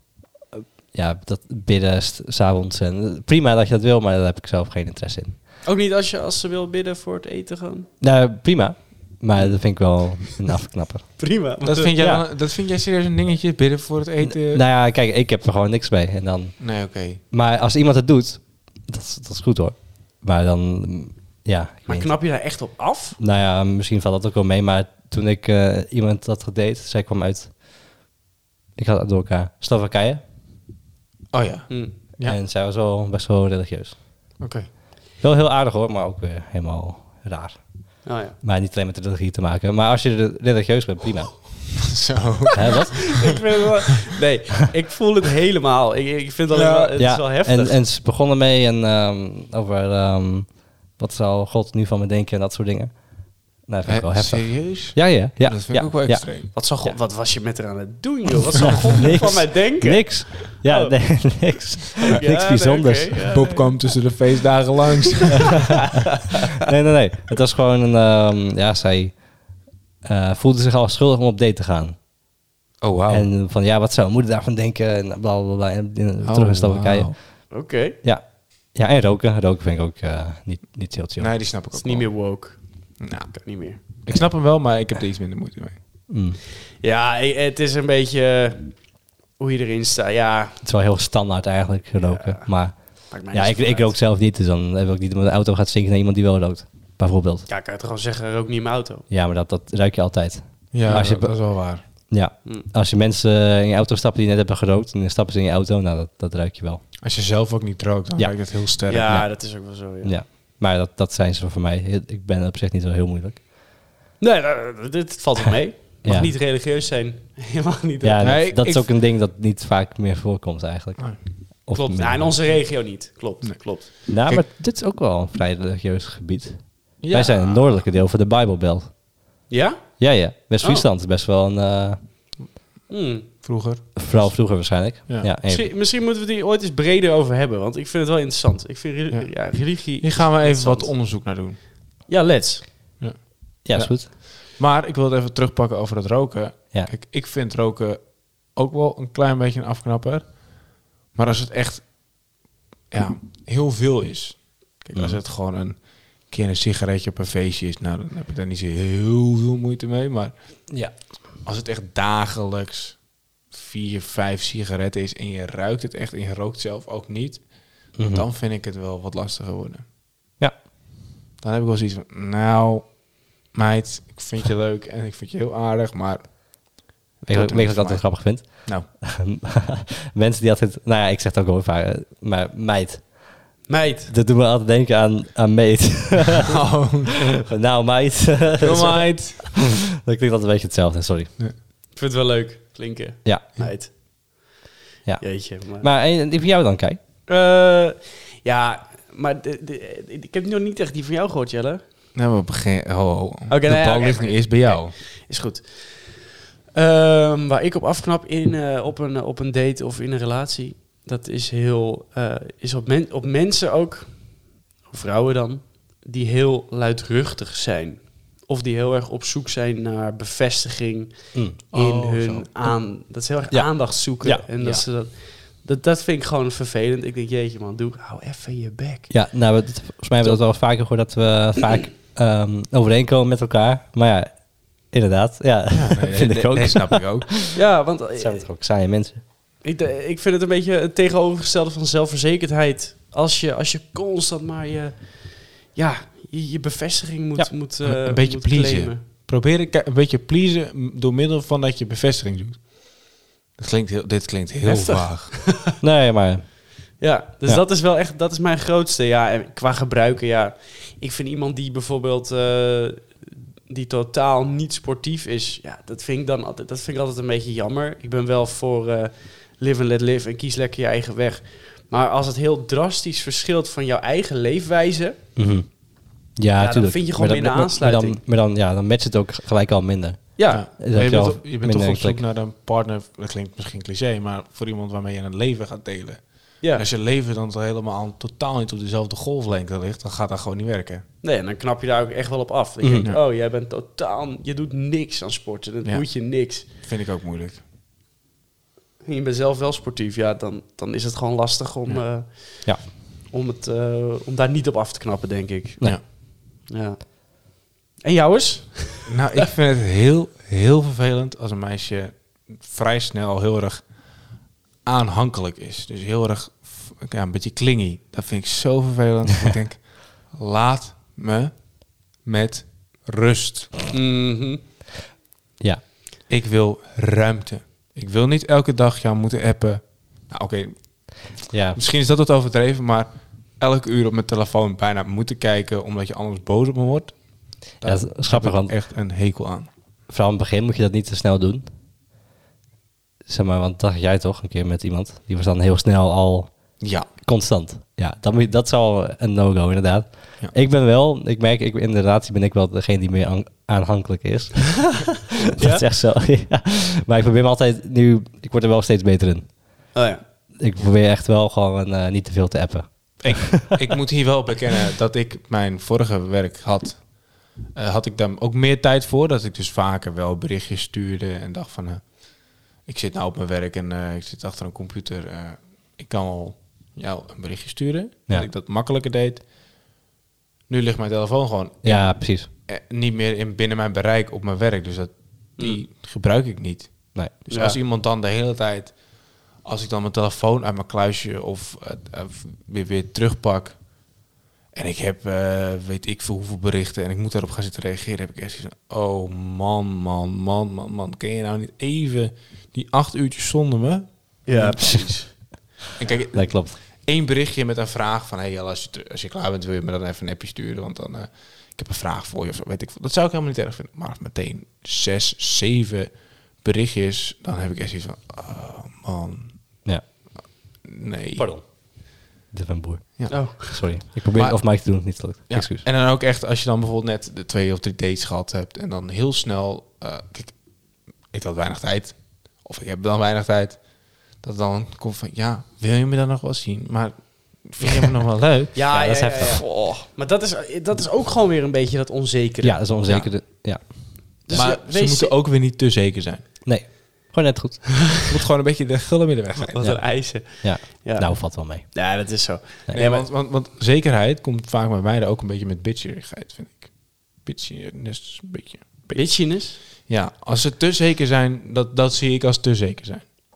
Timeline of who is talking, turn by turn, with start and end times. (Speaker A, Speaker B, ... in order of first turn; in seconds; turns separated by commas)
Speaker A: 0.5-5.3, Speaker B: 5.6-7.9, Speaker A: 8.0-11.3, Speaker B: 11.2-11.9, Speaker C: 11.6-14.6, Speaker A: 12.0-12.2, Speaker A: 14.2-16.7, Speaker C: 16.6-17.2, Speaker A: 17.2-22.2, Speaker B: 21.9-23.2, Speaker A: 23.2-27.6, Speaker A: 28.8-30.2, Speaker C: 31.3-32.4, Speaker B: 31.7-31.9, Speaker A: 32.2-34.0, Speaker C: 34.4-34.7, Speaker A: 35.2-41.7, Speaker B: 38.0-38.4, Speaker C: 41.8-43.0, Speaker A: 42.5-43.4, Speaker B: 43.0-47.8, Speaker C: 46.5-46.9, Speaker A: 47.0-57.0, Speaker C: 53.9-56.5, Speaker B: 56.5-61.5, Speaker A: 58.6-63.3, Speaker B: 62.0-63.8, Speaker C: 63.2-65.9, Speaker A: 66.6-72.0, Speaker C: 72.8-73.3, Speaker A: 73.1-81.3, Speaker C: 76.2-77.1, Speaker B: 77.5-78.0, Speaker C: 81.2-82.3, Speaker B: 81.8-83.8, Speaker C: 83.0-85.8, Speaker A: 86.1-86.4, Speaker B: 86.8-90.6, Speaker A: 90.6-97.5, Speaker B: 92.0-94.0, Speaker B: 97.5-99.0, Speaker A: 99.1-106.8, Speaker C: 100.7-101.8, Speaker C: 107.0-109.1, Speaker A: 108.2-108.5, Speaker B: 108.9-110.1, Speaker A: 109.0-113.4, Speaker B: 114.2-118.3, Speaker A: 116.0-116.3, Speaker A: 118.0-122.5, Speaker C: 118.2-118.9, Speaker B: 121.7-123.9, Speaker C: 123.4-124.4, Speaker A: 124.1-128.9, Speaker C: 127.0-127.8, Speaker B: 129.5-130.0, Speaker A: 130.0-132.0, Speaker B: 130.6-130.8, Speaker B: 132.9-133.3, Speaker C: 133.4-134.3, Speaker A: 133.9-135.7, Speaker B: 135.4-140.9, Speaker C: 139.1-141.6, Speaker B: 142.1-142.7, Speaker C: 143.0-152.1, Speaker A: 143.6-144.1, Speaker C: 152.9-160.7, Speaker A: 154.9-155.2, Speaker C: 161.4-169.8, Speaker A: 167.9-168.2, Speaker C: 171.4-178.9, Speaker A: 177.2-186.5, Speaker B: 183.7-184.1, Speaker C: 186.4-187.2, Speaker A: 187.3-191.3, Speaker C: 188.6-189.6, Speaker B: 191.9-194.5, Speaker A: 195.0-197.0, Speaker B: 195.2-195.9, Speaker B: 197.3-201.8, Speaker C: 202.1-204.9, Speaker B: 203.5-229.1, Speaker A: 221.3-221.6, Speaker C: 221.7-222.5, Speaker A: 223.5-224.5, Speaker A: 229.1-237.6, Speaker C: 235.7-237.4, Speaker B: 237.5-238.4, Speaker A: 238.1-239.2, Speaker B: 239.6-249.0, Speaker C: 247.8-253.1, Speaker C: 253.6-255.3, Speaker B: 254.6-255.7, Speaker A: 255.7-256.6, Speaker B: 257.0-275.2, Speaker A: 275.4-282.2, Speaker B: 276.6-278.2, Speaker B: 280.4-280.6, Speaker C: 280.5-291.0, Speaker B: 291.2-296.6, Speaker A: 292.8-293.1, Speaker C: 295.8-297.6, Speaker B: 299.0-309.2, Speaker C: 309.1-313.9, Speaker C: 314.8-323.8, Speaker B: 323.9-324.6, Speaker C: 326.3-339.7, Speaker A: 331.5-331.8, Speaker A: 337.8-338.7, Speaker A: 340.1-341.7, Speaker A: 343.2-359.9, Speaker C: 346.8-347.1, Speaker B: 355.6-355.8, Speaker B: 359.9-360.2, Speaker A: 360.6-363.8, Speaker C: 363.2-379.4, Speaker C: 380.7-393.8, Speaker A: 381.8-382.5, Speaker B: 387.5-387.8, Speaker C: 394.7-405.0, Speaker B: 404.4-405.3, Speaker C: 405.9-419.6, Speaker A: 406.3-406.8, Speaker C: 420.8-421.5, Speaker A: 421.4-425.8, Speaker B: 423.3-423.8, Speaker C: 424.3-438.9, Speaker B: 438.7-442.9, Speaker A: 438.9-439.9, Speaker A: 442.6-444.1, Speaker C: 443.0-443.3, Speaker B: 444.4-445.3, Speaker C: 444.5-446.4, Speaker A: 446.6-448.1, Speaker C: 448.2-449.9, Speaker B: 449.7-453.3, Speaker A: 449.8-452.1, Speaker C: 452.9-459.3, Speaker B: 459.1-459.8, Speaker C: 459.8-463.3